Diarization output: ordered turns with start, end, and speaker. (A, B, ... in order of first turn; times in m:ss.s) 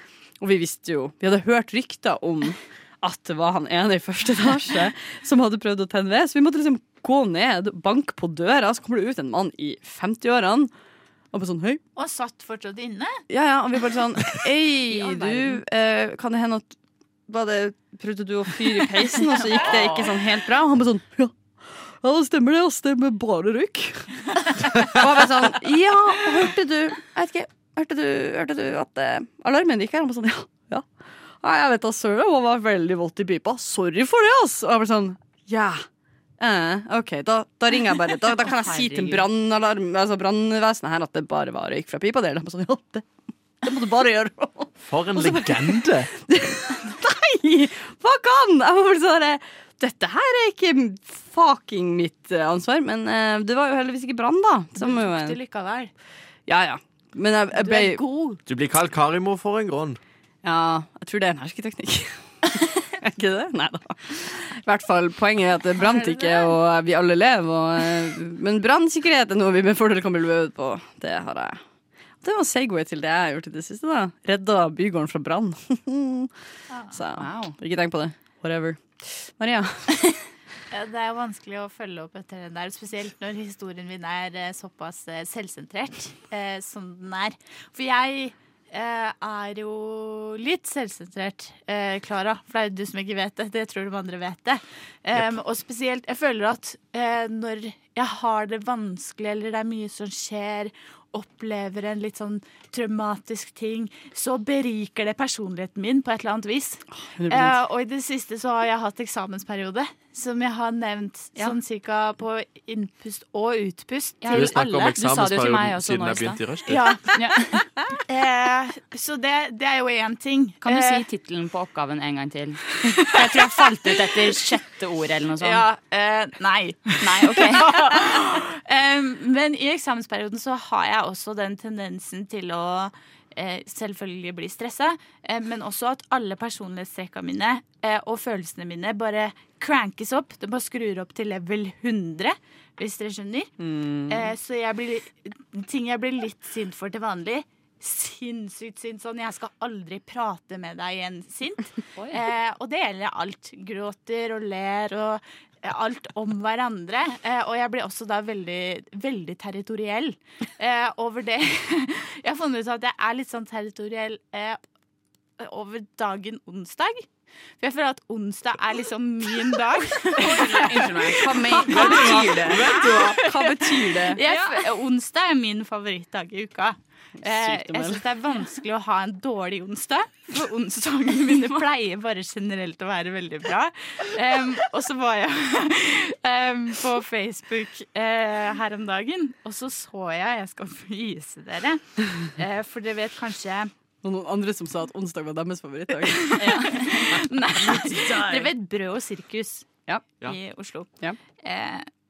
0:00.4-0:10.7 A
0:11.3-0:11.8 A
0:12.0-0:13.2 B
0:13.3-0:16.7 A
0:14.9-0:15.6 C
0:17.3-0:30.8 A
0:31.4-0:35.8 A
0:36.4-0:43.1 A
0:38.4-0:39.3 C
0:43.6-0:55.4 A
0:44.9-0:46.1 D
0:54.8-0:55.9 B
0:56.5-0:58.0 A
0:57.5-0:58.4 B
0:58.5-1:00.0 D
1:00.4-1:11.6 A
1:05.8-1:06.5 B
1:12.2-1:16.3 A
1:16.9-1:20.0 A
1:17.2-1:17.6 C
1:20.7-1:54.5 B
1:47.0-1:47.6 A
1:54.2-1:57.7 C
1:54.3-1:57.0 D
1:56.7-2:01.0 B
2:00.6-2:05.7 C
2:03.0-2:04.1 B
2:05.4-2:23.5 B
2:07.0-2:08.2 C
2:23.6-2:24.3 A
2:24.1-2:44.6 B
2:32.0-2:32.2 C
2:45.4-2:47.1 B
2:47.6-3:13.7 B
2:50.2-2:54.2 A
2:50.5-2:51.0 C
2:57.2-2:58.0 A
3:14.0-3:16.6 A
3:16.1-3:19.7 B
3:16.4-3:18.4 C
3:17.9-3:18.2 A
3:20.2-3:21.9 B